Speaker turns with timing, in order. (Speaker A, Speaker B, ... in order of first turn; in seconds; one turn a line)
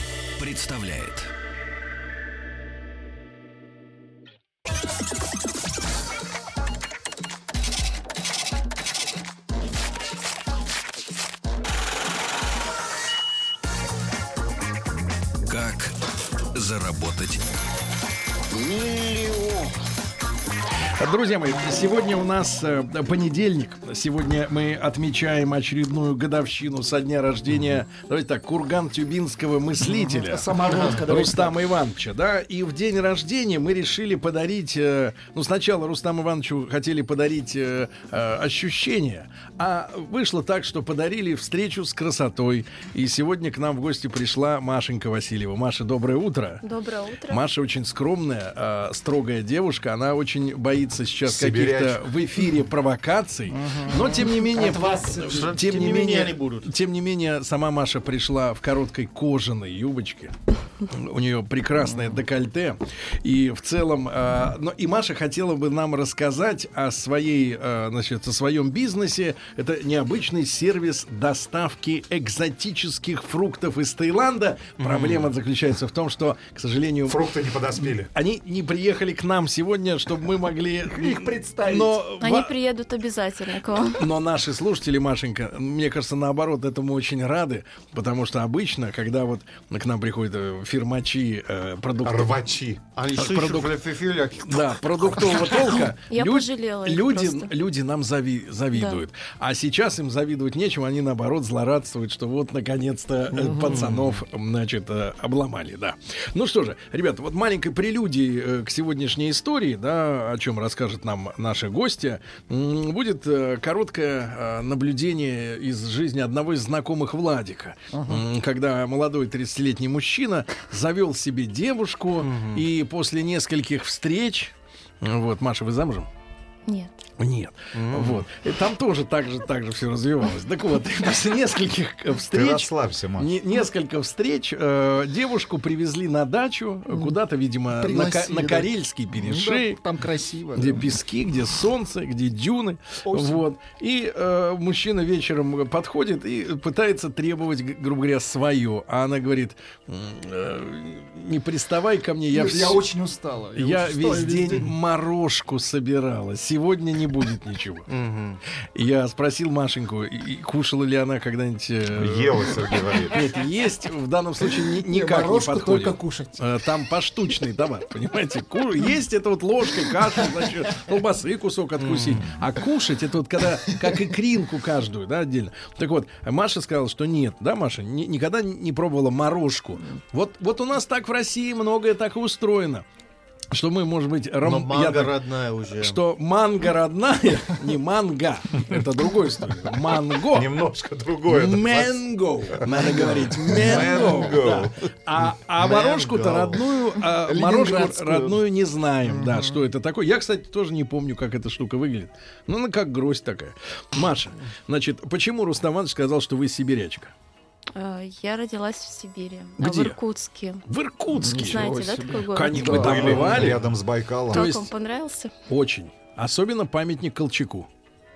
Speaker A: 0.4-1.3
Speaker A: 15.4-16.0
Speaker A: 16.5-17.4
Speaker A: 18.6-19.7
Speaker B: 21.0-46.6
Speaker C: 29.9-31.6
Speaker D: 30.7-31.0
Speaker E: 46.6-47.5
Speaker B: 47.3-60.3
Speaker F: 51.2-52.0
Speaker C: 53.5-55.7
Speaker D: 55.2-56.7
Speaker B: 60.9-77.2
Speaker D: 74.8-75.3
Speaker F: 77.1-78.1
Speaker B: 78.0-82.5
Speaker C: 80.9-82.0
Speaker E: 82.2-84.1
Speaker B: 84.0-92.4
Speaker F: 92.0-92.8
Speaker D: 93.0-95.4
Speaker B: 93.2-93.8
Speaker B: 94.4-126.1
Speaker E: 96.1-97.5
Speaker E: 98.7-99.0
Speaker C: 103.3-103.8
Speaker D: 103.6-104.2
Speaker C: 117.9-118.2
Speaker D: 122.2-122.7
Speaker E: 126.7-126.9
Speaker B: 127.2-139.8
Speaker D: 127.7-128.3
Speaker F: 132.3-133.3
Speaker C: 137.8-141.0
Speaker B: 140.6-152.8
Speaker C: 143.1-143.4
Speaker C: 152.3-154.7
Speaker B: 153.6-157.9
Speaker D: 157.9-158.4
Speaker B: 158.8-182.8
Speaker F: 161.9-163.3
Speaker C: 164.8-166.4
Speaker D: 171.8-172.4
Speaker B: 183.5-185.2
Speaker D: 184.4-186.0
Speaker B: 185.8-190.5
Speaker F: 190.3-194.8
Speaker B: 191.3-207.1
Speaker C: 192.7-194.3
Speaker C: 197.1-198.4
Speaker C: 199.1-199.6
Speaker E: 207.8-210.7
Speaker B: 209.6-210.0
Speaker B: 210.7-211.7
Speaker C: 211.1-213.6
Speaker E: 211.4-213.2
Speaker B: 212.3-213.6
Speaker F: 212.6-214.5
Speaker E: 214.3-215.3
Speaker B: 214.3-214.7
Speaker B: 215.5-217.7